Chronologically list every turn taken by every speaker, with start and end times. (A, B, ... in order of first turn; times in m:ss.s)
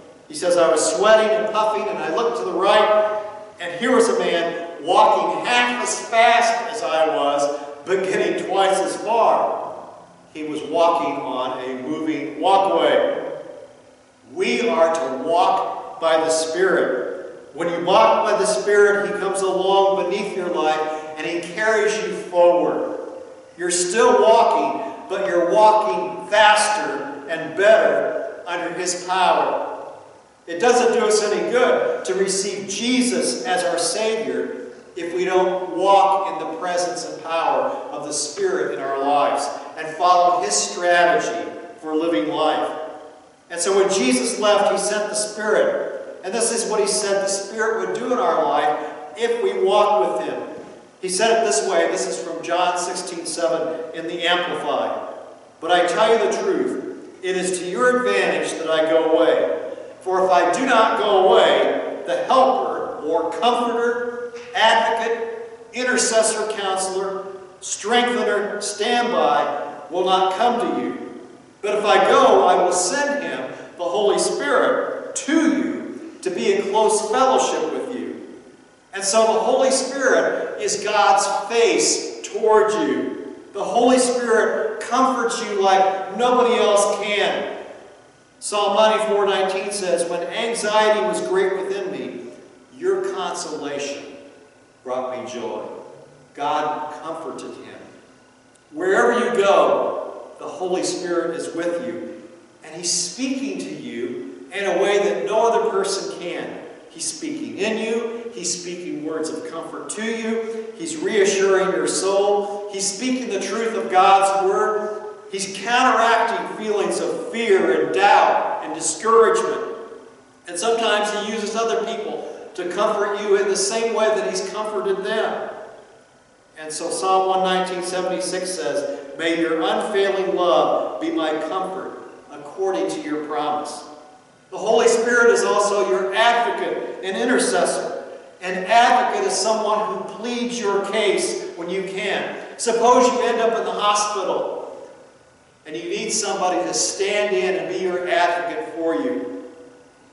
0:00.3-0:03.0 A
0:03.6-0:09.5 A
0:10.3-0:13.0 A
0:14.2-0:17.0 A
0:17.5-0:22.9 A
0:23.6-0:29.6 A
0:30.5-0:42.7 A
0:43.5-0:50.5 A
0:51.0-0:55.0 A
0:55.6-0:59.5 A
1:00.0-1:11.0 A
1:11.6-1:18.2 A
1:18.9-1:27.4 A
1:28.4-1:32.2 A
1:32.7-1:34.1 A
1:34.8-1:35.7 A
1:36.3-1:37.8 A
1:38.7-1:42.0 A
1:42.6-1:59.7 A
2:00.4-2:05.4 A
2:06.6-2:13.8 A
2:14.5-2:24.5 A
2:25.6-2:29.2 A